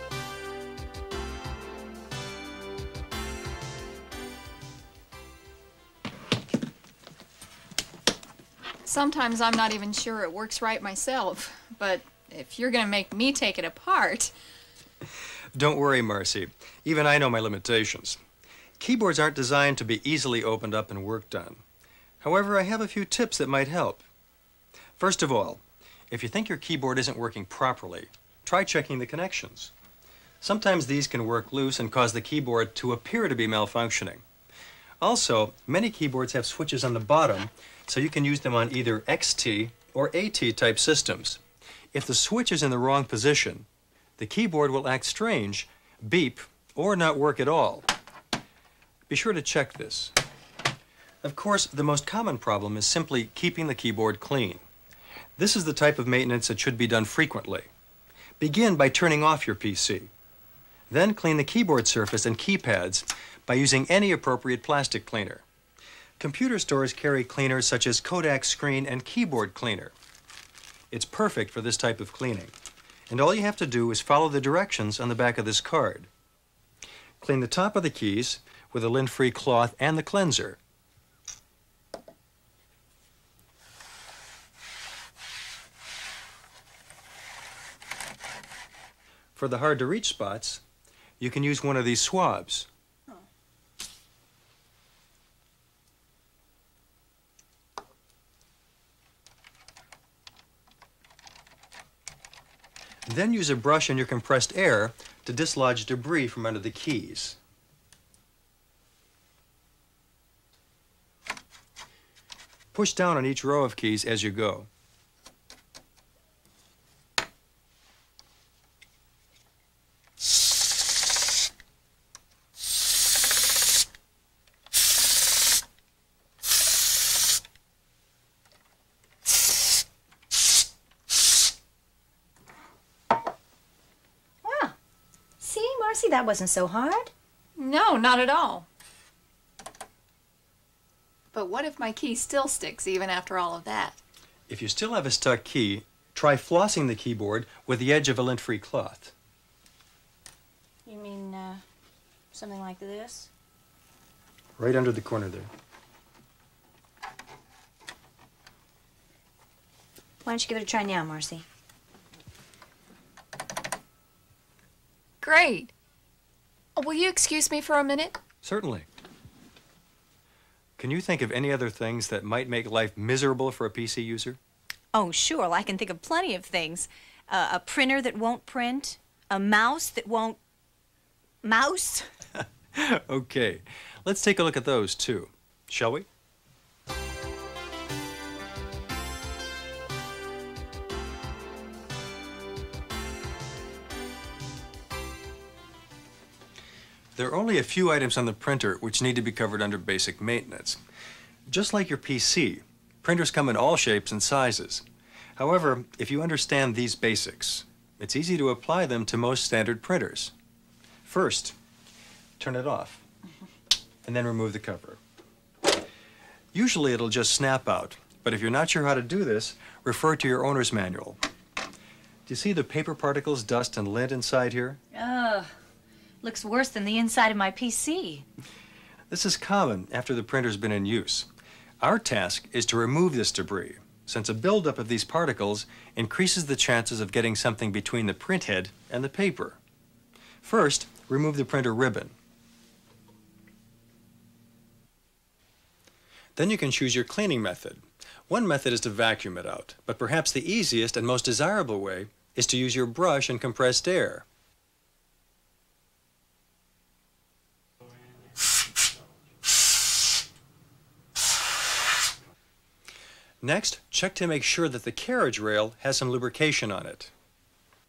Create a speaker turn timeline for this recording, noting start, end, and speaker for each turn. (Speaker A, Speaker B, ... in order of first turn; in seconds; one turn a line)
Speaker A: 8.8-14.3
Speaker B: 15.5-18.2
Speaker B: 18.8-21.6
Speaker B: 22.2-24.0
Speaker B: 25.0-29.7
Speaker B: 30.4-34.2
Speaker B: 35.0-41.4
Speaker B: 41.9-43.7
Speaker B: 44.2-47.9
Speaker B: 49.1-50.1
Speaker B: 51.2-54.6
Speaker B: 55.4-57.7
Speaker B: 58.4-60.1
Speaker B: 60.9-65.4
Speaker B: 66.2-69.9
Speaker B: 70.9-72.5
Speaker B: 73.1-76.1
Speaker B: 77.2-80.6
Speaker B: 89.3-90.6
Speaker B: 91.2-92.7
Speaker B: 103.0-107.4
Speaker B: 112.7-114.7
Speaker C: 134.4-134.8
Speaker C: 135.4-137.1
Speaker A: 137.6-138.7
Speaker A: 141.3-143.9
Speaker B: 144.5-149.1
Speaker C: 150.8-151.6
Speaker C: 152.3-153.3
Speaker B: 154.6-155.5
Speaker C: 160.2-161.4
Speaker A: 165.2-165.7
Speaker A: 166.8-168.2
Speaker B: 168.4-168.9
Speaker B: 170.8-174.4
Speaker C: 174.9-180.4
Speaker C: 181.4-182.1
Speaker B: 182.4-186.1
Speaker B: 197.2-200.8
Speaker B: 201.5-204.8
Speaker B: 205.4-210.3
Speaker B: 211.0-211.6
Speaker B: 212.4-213.0
Speaker B: 214.0-215.0
Speaker B: 216.5-221.2
Speaker B: 222.2-224.8
Speaker C: 224.9-225.5
Speaker C: 226.2-228.2
Speaker B: 229.1-231.3
Speaker B: 231.8-239.6
Speaker B: 240.4-242.1
Speaker B: 246.3-254.2
Speaker B: 263.4-267.1